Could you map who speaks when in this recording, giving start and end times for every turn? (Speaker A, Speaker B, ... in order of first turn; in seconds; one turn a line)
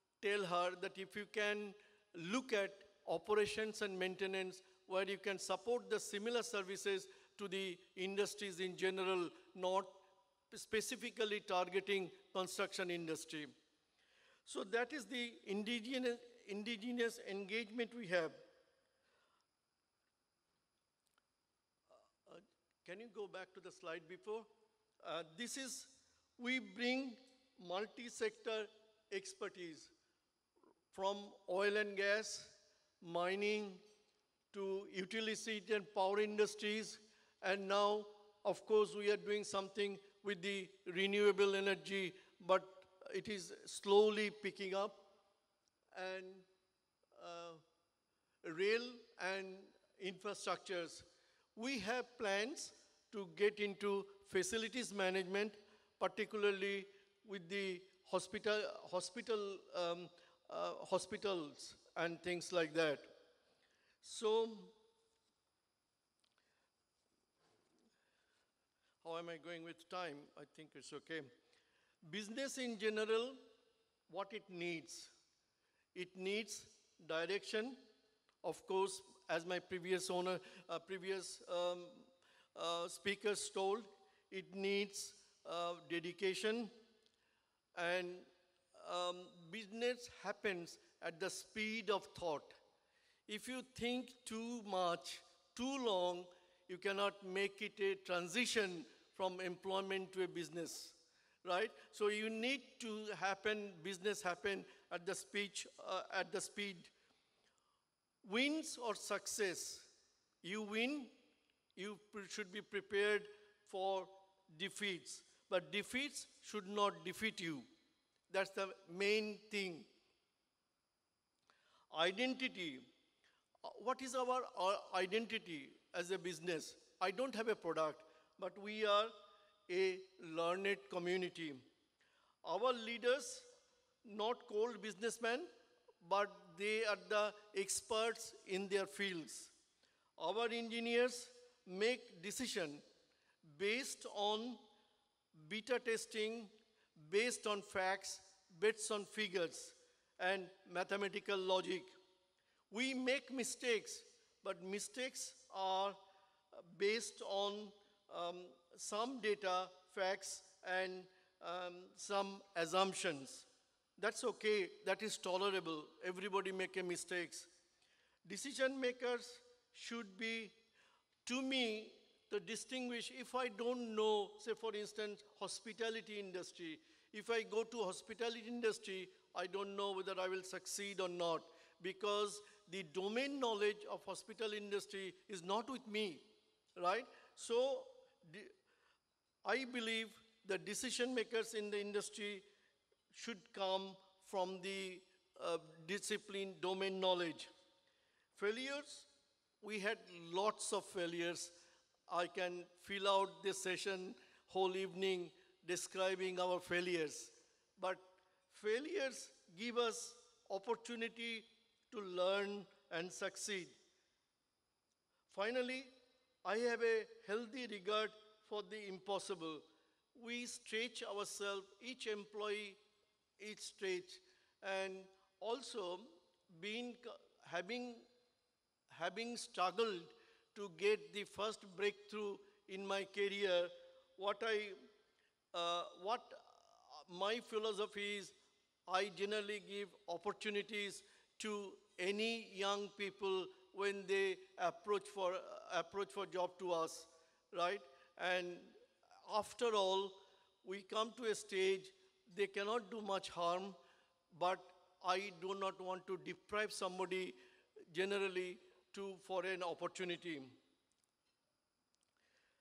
Speaker A: 0.2-13.5
Speaker A: 14.5-18.4
Speaker A: 22.2-24.5
Speaker A: 25.0-29.9
Speaker A: 30.9-33.8
Speaker A: 34.5-45.1
Speaker A: 45.9-46.5
Speaker A: 47.1-47.6
Speaker A: 48.4-63.1
Speaker A: 64.0-64.7
Speaker A: 69.0-71.3
Speaker A: 72.0-73.4
Speaker A: 74.1-75.1
Speaker A: 76.0-77.8
Speaker A: 78.4-86.7
Speaker A: 87.8-92.6
Speaker A: 93.3-106.9
Speaker A: 108.2-111.1
Speaker A: 111.8-117.7
Speaker A: 118.3-119.9
Speaker A: 121.9-122.9
Speaker A: 123.6-129.1
Speaker A: 129.7-131.6
Speaker A: 132.4-133.5
Speaker A: 134.0-135.5
Speaker A: 136.0-139.5
Speaker A: 140.2-142.8
Speaker A: 143.4-144.6
Speaker A: 145.3-151.9
Speaker A: 152.7-156.0
Speaker A: 156.5-167.5
Speaker A: 168.2-170.5
Speaker A: 171.2-188.5
Speaker A: 189.4-192.4
Speaker A: 193.1-197.5
Speaker A: 198.3-199.1
Speaker A: 199.6-213.8
Speaker A: 215.3-222.8
Speaker A: 223.4-228.1
Speaker A: 228.9-234.8
Speaker A: 235.5-238.3
Speaker A: 238.9-253.8
Speaker A: 254.3-257.4
Speaker A: 257.9-260.6